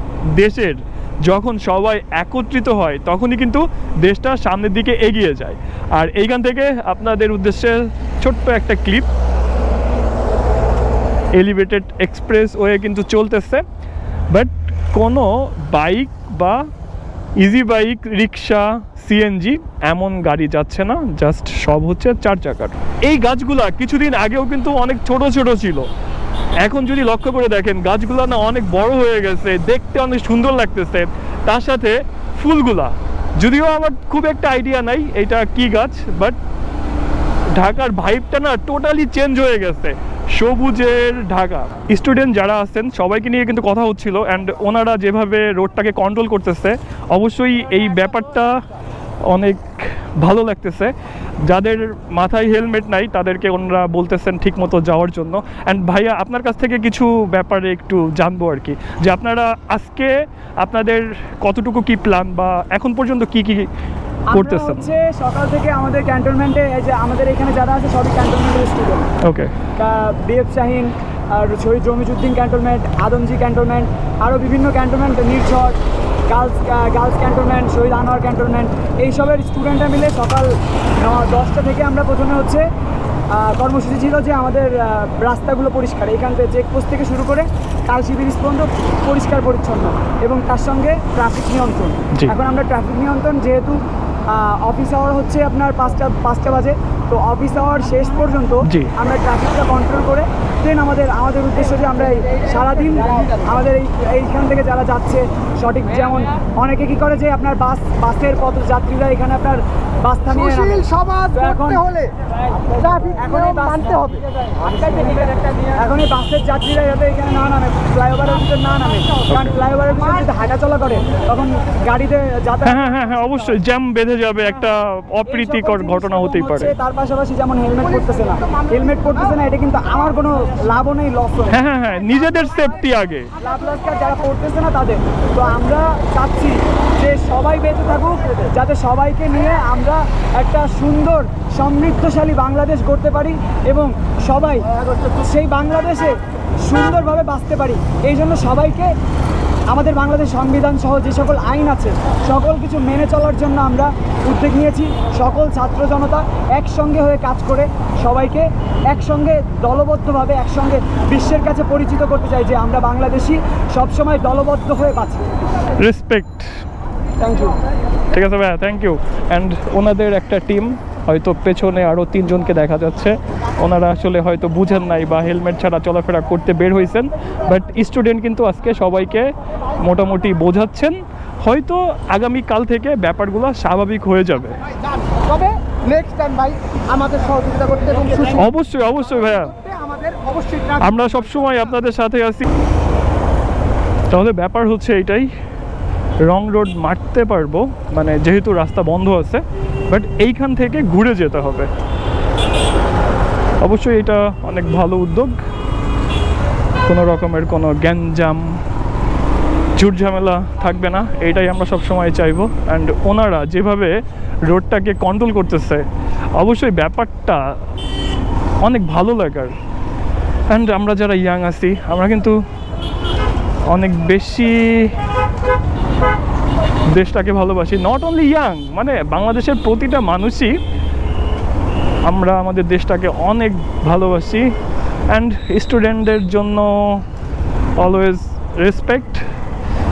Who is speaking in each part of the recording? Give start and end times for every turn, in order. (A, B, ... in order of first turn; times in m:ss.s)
0:00.3-0:09.1 A
0:11.3-0:13.6 A
0:14.3-0:16.6 A
0:17.4-0:25.9 A
0:26.6-0:36.4 A
0:37.5-0:48.6 A
0:49.2-1:03.7 A
1:04.3-1:09.1 B
1:04.3-1:04.9 A
1:09.2-1:09.6 A
1:09.8-1:15.8 B
1:16.3-1:22.6 B
1:23.3-1:33.8 B
1:34.3-1:52.0 B
1:38.6-1:38.9 A
1:51.0-1:51.3 C
1:52.8-1:53.1 C
1:53.1-2:02.8 B
1:59.3-1:59.5 A
2:02.6-2:06.7 A
2:05.3-2:11.5 B
2:11.5-2:13.3 A
2:13.4-2:28.9 B
2:29.7-2:45.2 B
2:45.8-2:46.5 A
2:47.2-2:47.6 B
2:48.1-3:04.6 A
3:05.7-3:08.3 C
3:08.3-3:09.6 A
3:09.9-3:10.7 C
3:10.8-3:12.4 A
3:14.1-3:15.3 A
3:16.2-3:21.7 A
3:23.6-3:25.4 A
3:26.8-3:28.6 A
3:29.8-3:35.8 A
3:36.4-3:37.5 A
3:38.6-3:39.5 A
3:40.5-3:42.4 A
3:43.7-3:44.9 A
3:46.9-3:50.5 A
3:52.0-3:54.5 A
3:55.1-3:57.0 A
3:57.8-3:59.2 A